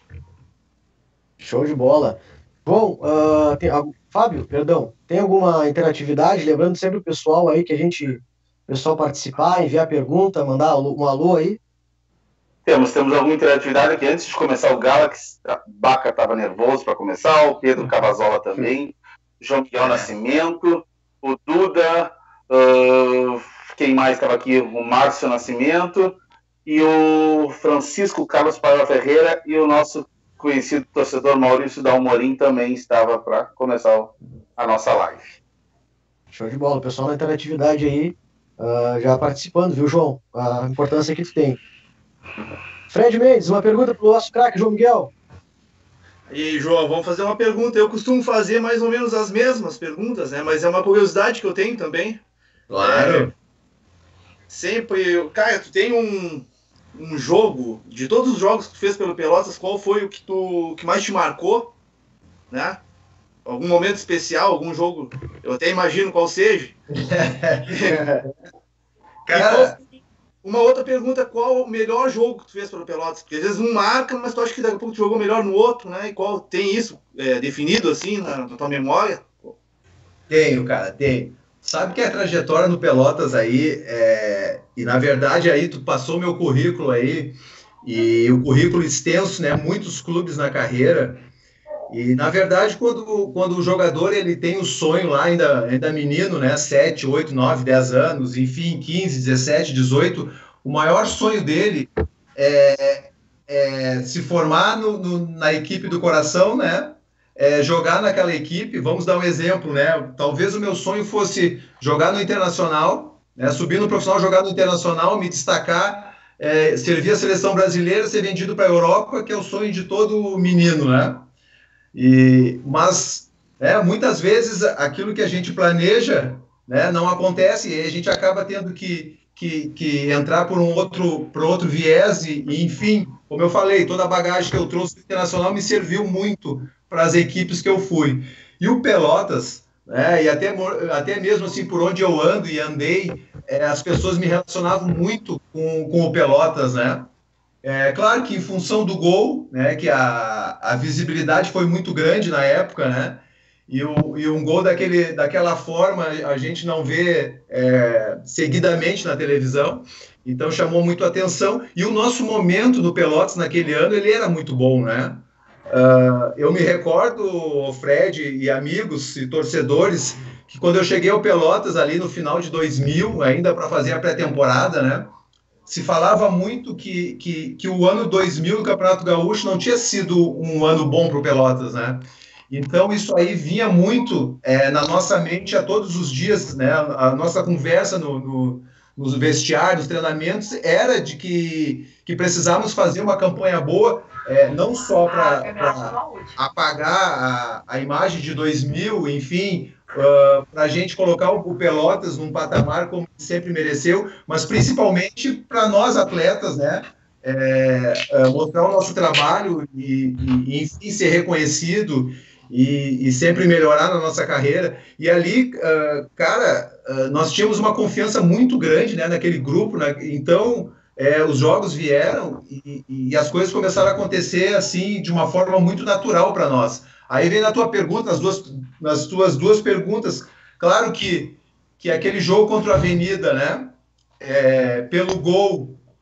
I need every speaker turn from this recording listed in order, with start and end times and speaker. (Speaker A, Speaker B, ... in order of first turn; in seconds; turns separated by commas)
Speaker A: 1.4-11.6, Speaker B: 12.7-26.1, Speaker B: 26.6-35.3, Speaker A: 36.3-41.6, Speaker A: 42.9-45.1, Speaker C: 46.3-52.2, Speaker D: 52.7-53.3, Speaker C: 52.8-53.3, Speaker C: 54.5-61.7, Speaker C: 62.5-62.8, Speaker C: 63.4-66.8, Speaker D: 67.0-68.0, Speaker C: 67.7-68.2, Speaker D: 69.3-69.8, Speaker C: 69.3-69.8, Speaker C: 70.4-79.5, Speaker D: 80.3-91.2, Speaker D: 91.9-121.2, Speaker D: 121.9-147.1, Speaker D: 147.6-175.1, Speaker D: 175.7-235.8